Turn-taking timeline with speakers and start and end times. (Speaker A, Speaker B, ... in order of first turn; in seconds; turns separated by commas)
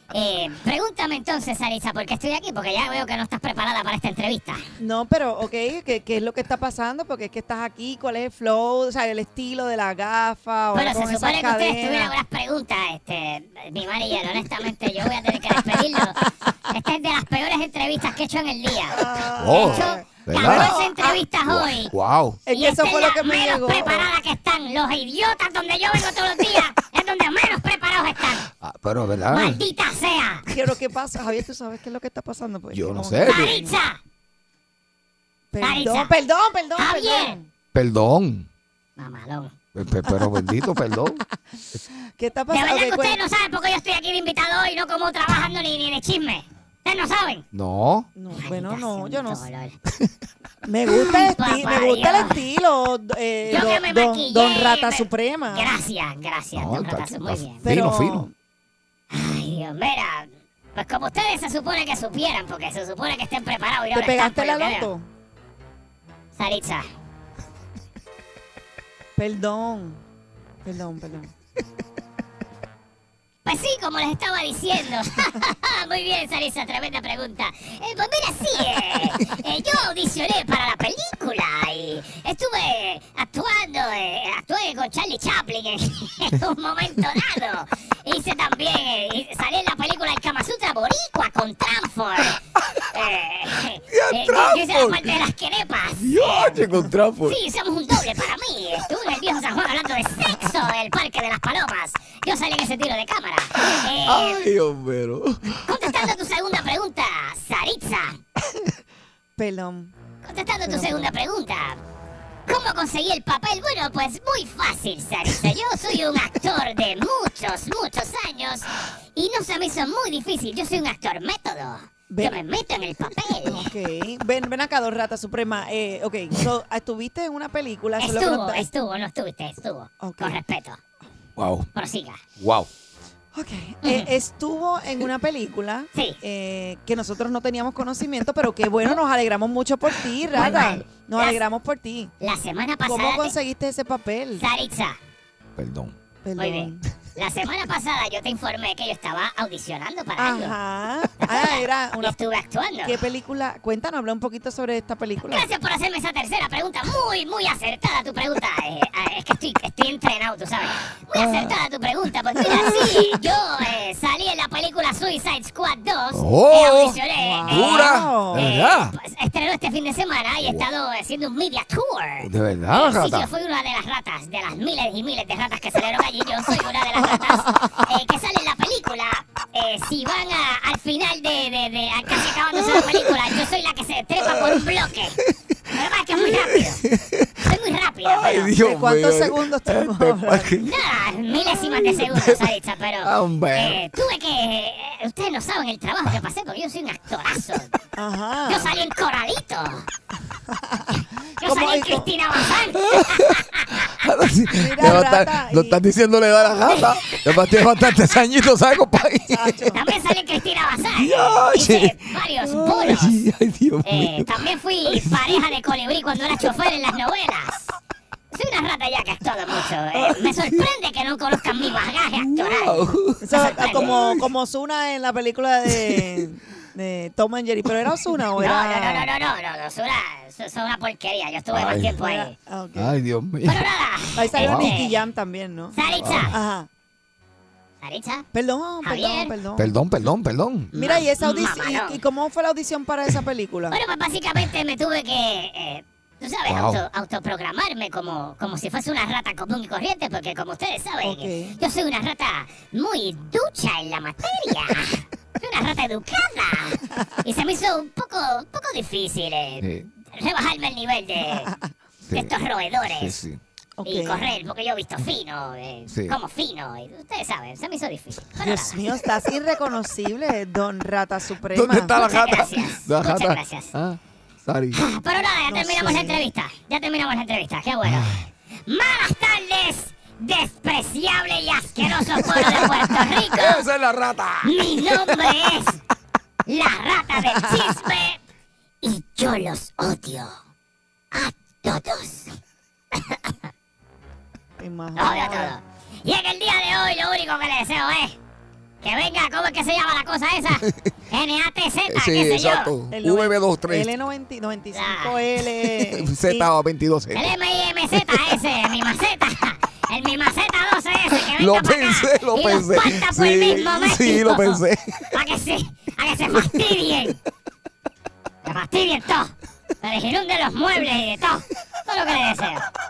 Speaker A: 0.1-4.6, Speaker B: 4.8-12.1, Speaker A: 10.7-21.9, Speaker B: 18.9-21.2, Speaker C: 19.4-20.8, Speaker C: 21.4-22.4, Speaker B: 22.5-24.1, Speaker A: 22.5-28.5, Speaker C: 28.5-29.6, Speaker A: 29.3-30.4, Speaker B: 30.5-33.8, Speaker C: 32.7-33.6, Speaker A: 33.2-34.0, Speaker B: 35.5-37.5, Speaker A: 35.6-36.2, Speaker A: 36.8-37.4, Speaker C: 37.7-38.5, Speaker A: 39.0-39.5, Speaker C: 39.7-41.2, Speaker B: 40.1-40.7, Speaker B: 42.2-43.2, Speaker A: 42.5-47.5, Speaker C: 47.5-48.1, Speaker B: 48.2-49.5, Speaker A: 48.4-49.8, Speaker B: 50.6-55.8, Speaker A: 51.1-52.4, Speaker A: 53.5-57.6, Speaker C: 56.5-58.3, Speaker B: 57.6-58.3, Speaker A: 59.1-64.9, Speaker B: 63.9-65.1, Speaker A: 66.3-66.8, Speaker B: 69.2-70.0, Speaker B: 70.7-71.3, Speaker A: 73.5-92.4, Speaker A: 92.9-96.6, Speaker C: 93.9-95.2, Speaker C: 96.0-97.4, Speaker A: 97.2-104.5, Speaker C: 103.7-106.1, Speaker A: 105.7-108.2, Speaker B: 109.4-110.0, Speaker A: 110.2-111.8, Speaker B: 110.6-111.2, Speaker A: 112.5-123.7, Speaker B: 122.1-122.4, Speaker B: 123.4-128.7, Speaker A: 128.0-130.8, Speaker B: 130.0-130.4, Speaker C: 131.4-131.7, Speaker A: 131.7-132.2, Speaker C: 132.4-132.7, Speaker B: 133.3-142.1, Speaker A: 133.8-134.1, Speaker A: 135.9-136.2, Speaker A: 140.3-141.4, Speaker A: 142.2-143.3, Speaker B: 142.8-144.5, Speaker A: 144.4-145.0, Speaker C: 145.6-145.9, Speaker B: 146.2-146.9, Speaker A: 146.4-150.6, Speaker B: 150.2-152.2, Speaker A: 151.2-153.0, Speaker B: 152.8-155.5, Speaker A: 155.2-185.2, Speaker C: 161.1-161.6, Speaker C: 162.5-163.0, Speaker C: 166.1-168.9, Speaker B: 167.2-168.5, Speaker C: 170.4-170.7, Speaker C: 172.2-173.3, Speaker C: 182.2-183.4, Speaker C: 184.2-187.5, Speaker A: 185.7-186.8, Speaker A: 187.4-188.5, Speaker C: 188.1-190.8, Speaker B: 188.5-190.5, Speaker A: 190.6-197.7, Speaker C: 191.4-193.8, Speaker B: 198.0-198.8, Speaker A: 198.5-199.9, Speaker B: 200.5-202.1, Speaker A: 201.4-203.9, Speaker C: 202.8-209.6, Speaker B: 204.5-205.8, Speaker A: 206.7-207.3, Speaker B: 209.3-209.8, Speaker A: 209.7-213.2, Speaker C: 210.9-215.5, Speaker A: 213.8-217.7, Speaker A: 218.3-224.0, Speaker C: 219.9-220.6, Speaker C: 222.2-224.2, Speaker B: 223.2-229.1, Speaker C: 225.7-226.2, Speaker A: 228.4-232.3, Speaker C: 231.5-232.0, Speaker B: 232.0-233.0, Speaker C: 232.8-233.6, Speaker A: 233.4-235.0, Speaker B: 234.2-236.7, Speaker C: 234.4-234.7, Speaker A: 235.7-236.3, Speaker C: 235.9-236.3, Speaker A: 237.8-238.3, Speaker B: 238.3-239.8, Speaker A: 238.8-239.3, Speaker C: 239.6-240.7, Speaker A: 240.7-242.0, Speaker B: 240.7-243.8, Speaker A: 243.7-261.5, Speaker C: 246.5-246.8, Speaker B: 251.0-251.6, Speaker C: 259.6-259.9, Speaker B: 261.3-261.7, Speaker C: 262.1-262.3, Speaker A: 262.1-263.2, Speaker C: 262.9-263.4, Speaker B: 263.8-264.3, Speaker A: 263.9-268.8, Speaker C: 265.9-266.2, Speaker B: 268.4-272.0, Speaker C: 271.5-274.8, Speaker A: 271.9-273.7, Speaker A: 274.7-283.7, Speaker B: 275.5-276.2, Speaker C: 277.8-278.3, Speaker C: 281.8-285.5, Speaker A: 284.4-285.8, Speaker A: 286.5-288.2, Speaker A: 288.8-290.3, Speaker A: 291.1-292.4, Speaker A: 292.9-293.4, Speaker B: 294.6-295.6, Speaker A: 295.0-298.2, Speaker A: 298.8-302.7, Speaker C: 300.6-300.9, Speaker C: 301.9-303.9, Speaker B: 302.9-306.5, Speaker A: 304.7-305.2, Speaker C: 305.8-307.3, Speaker A: 307.1-317.2, Speaker C: 308.0-308.3, Speaker C: 311.3-315.2, Speaker C: 316.3-317.1, Speaker A: 318.4-322.7